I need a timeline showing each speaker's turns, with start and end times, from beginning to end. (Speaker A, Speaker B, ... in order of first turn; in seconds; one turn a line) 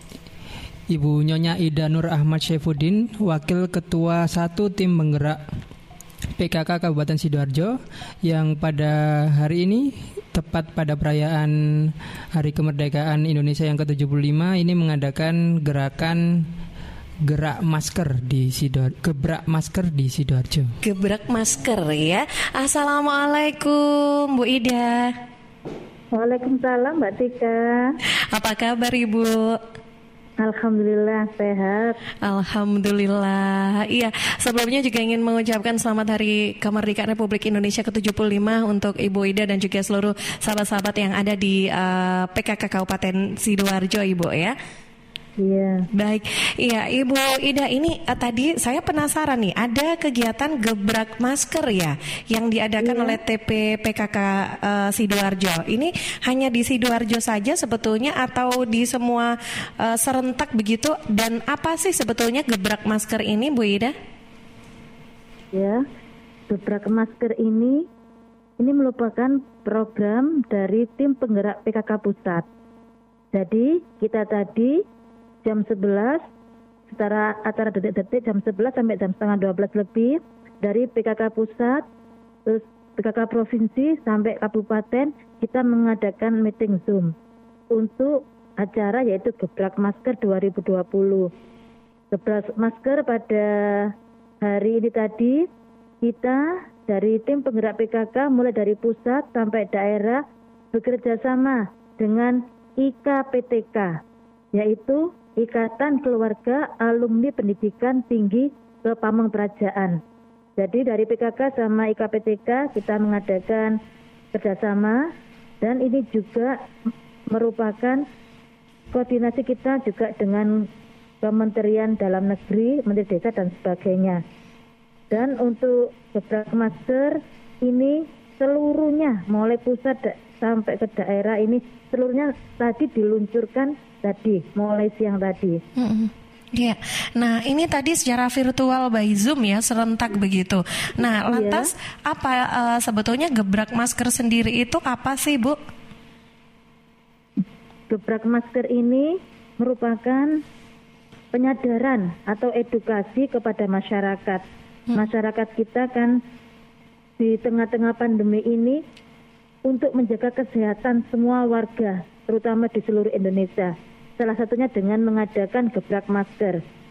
Speaker A: 0.9-5.4
Speaker A: 6.4-16.5
Speaker A: 17.2-20.7
Speaker B: 20.8-25.1
Speaker C: 26.1-27.9
Speaker B: 28.3-29.6
Speaker C: 30.4-32.0
Speaker B: 32.2-44.5
Speaker C: 45.4-45.9
Speaker B: 45.9-63.9
Speaker C: 52.8-53.2
Speaker C: 65.5-65.8
Speaker C: 66.5-67.9
Speaker C: 68.6-72.5
Speaker C: 73.3-74.8
Speaker C: 75.4-76.2
Speaker C: 76.9-81.8
Speaker C: 82.5-87.1
Speaker C: 87.7-91.3
Speaker C: 92.1-95.5
Speaker C: 96.0-100.2
Speaker C: 100.7-104.0
Speaker C: 104.5-110.0
Speaker C: 110.6-113.7
Speaker C: 114.3-115.0
Speaker C: 115.6-116.5
Speaker C: 117.3-118.0
Speaker C: 118.9-120.7
Speaker C: 121.2-124.2
Speaker C: 125.1-135.6
Speaker B: 135.8-145.6
Speaker C: 141.3-141.7
Speaker C: 147.9-150.4
Speaker C: 151.3-156.2
Speaker C: 157.2-158.8
Speaker C: 159.6-166.6